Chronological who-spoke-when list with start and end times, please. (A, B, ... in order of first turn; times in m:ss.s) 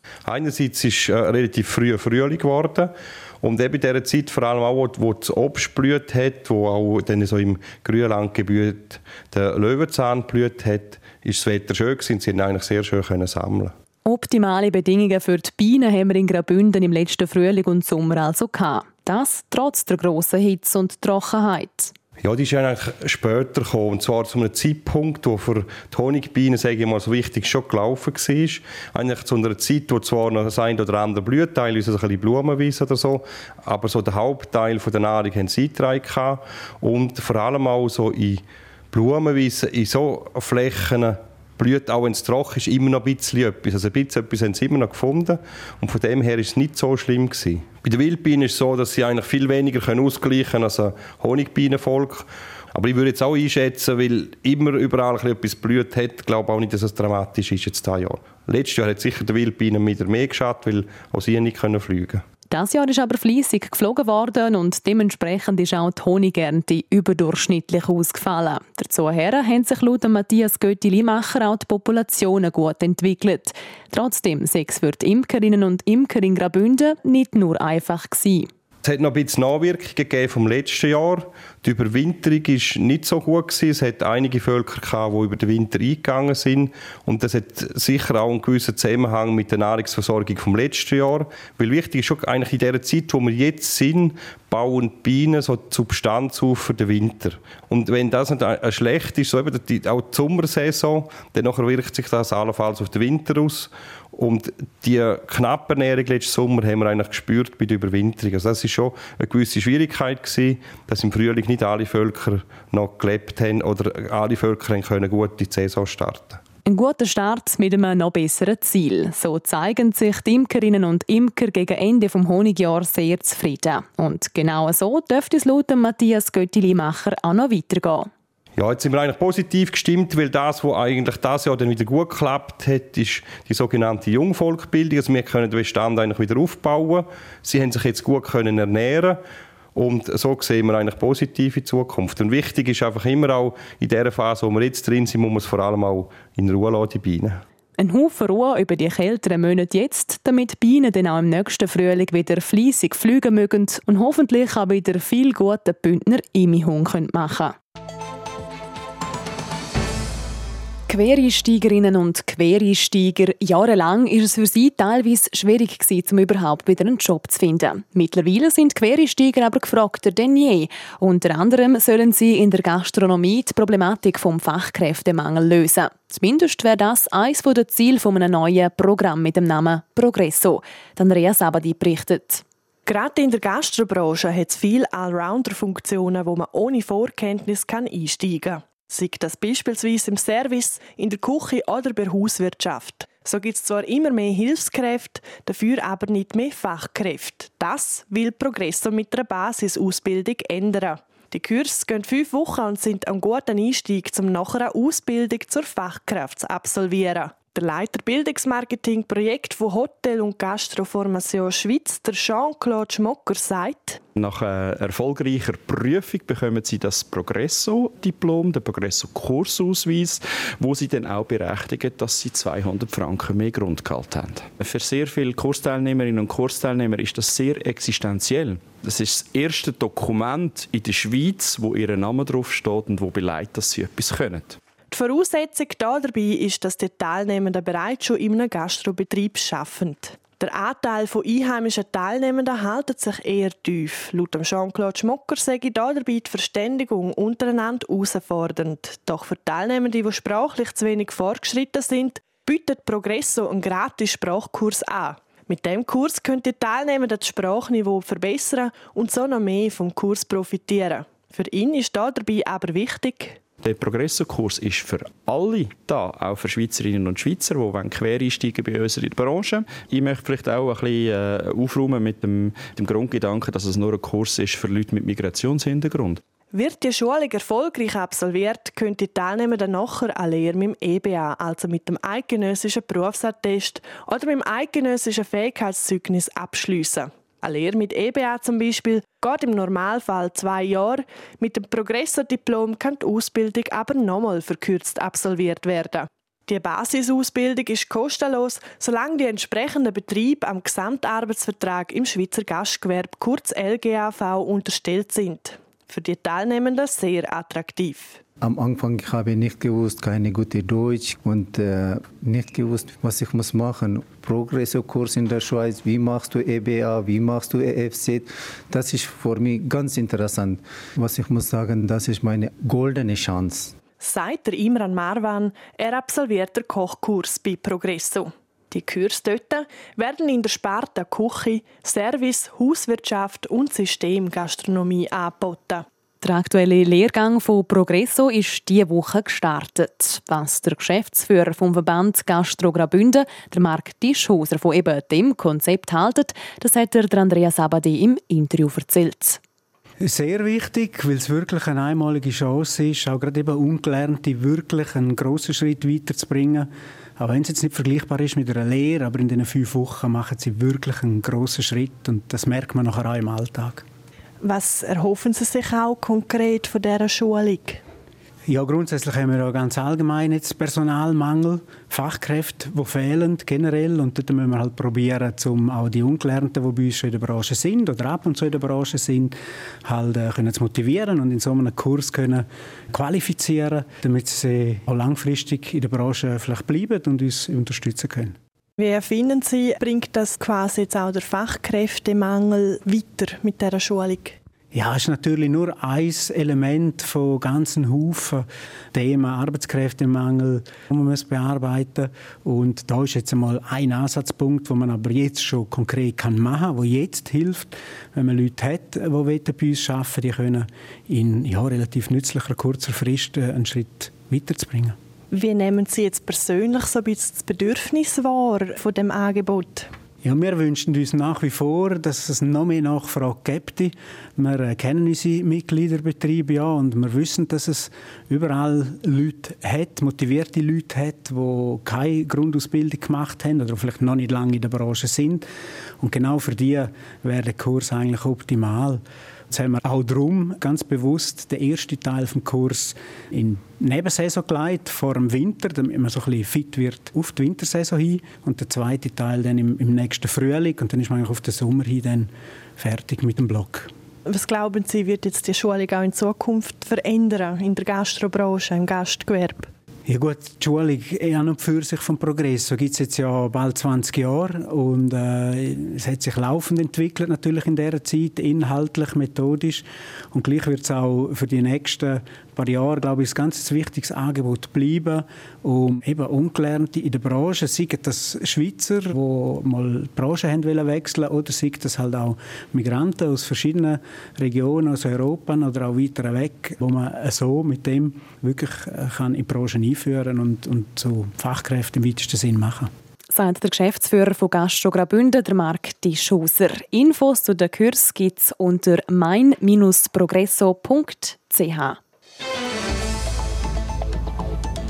0:00.2-0:13.7 A
0:14.0-0:21.9 B
0:22.2-1:02.2 A
1:02.5-1:18.5 B
1:18.8-1:56.4 A
1:56.6-2:08.1 B
2:08.6-2:19.2 A
2:19.7-2:27.4 A
2:27.8-2:37.5 B
2:40.9-3:02.4 B
3:02.8-3:34.0 C
3:34.2-3:54.6 D
3:54.9-4:23.4 C
4:23.6-4:36.2 D
4:36.5-5:08.2 C
5:08.4-5:23.8 E
5:24.0-5:35.8 C
5:36.2-5:49.4 B
5:50.0-6:03.8 F
6:04.4-6:07.8 C
6:08.5-6:28.4 F
6:28.8-6:34.4 C
6:34.7-6:55.0 F
6:55.3-6:59.9 C
7:00.2-7:15.4 F
7:16.0-7:33.9 F
7:34.3-7:39.7 C
7:40.1-8:12.9 F
8:13.3-8:22.0 B